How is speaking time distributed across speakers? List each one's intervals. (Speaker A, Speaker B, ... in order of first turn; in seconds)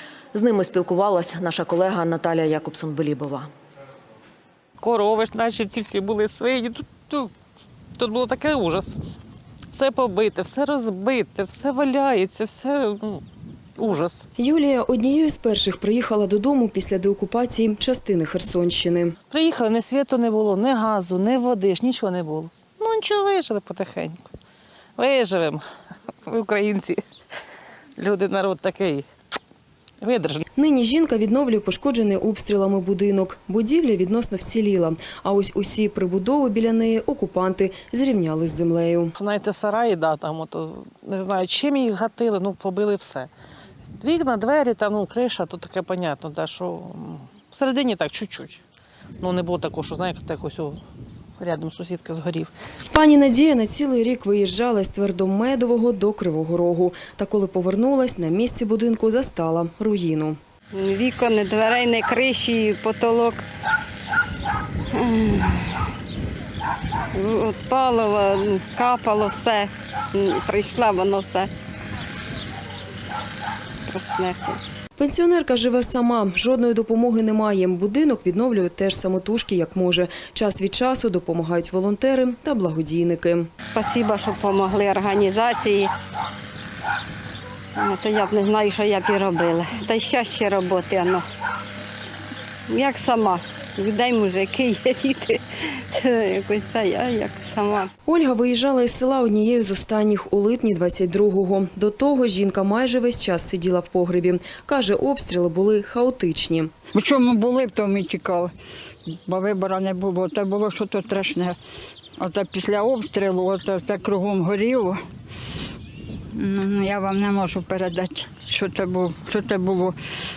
Speaker A: 0.3-3.5
Speaker B: 4.8-7.3, 8.0-9.0, 9.7-13.2, 13.8-14.2, 19.3-24.3, 25.0-25.6, 26.3-27.0, 28.0-29.1, 30.0-30.4, 39.2-43.3, 44.0-48.6, 49.2-50.8, 51.4-52.5
Speaker C: 14.4-19.1, 30.6-39.1, 52.9-60.4, 75.0-83.5, 98.1-106.7
Speaker D: 60.7-63.4, 64.9-65.8, 67.1-71.5, 73.9-74.6, 83.7-85.9, 87.8-91.2, 92.7-97.9
Speaker E: 106.9-108.5, 109.2-111.6, 112.2-115.0, 116.3-119.9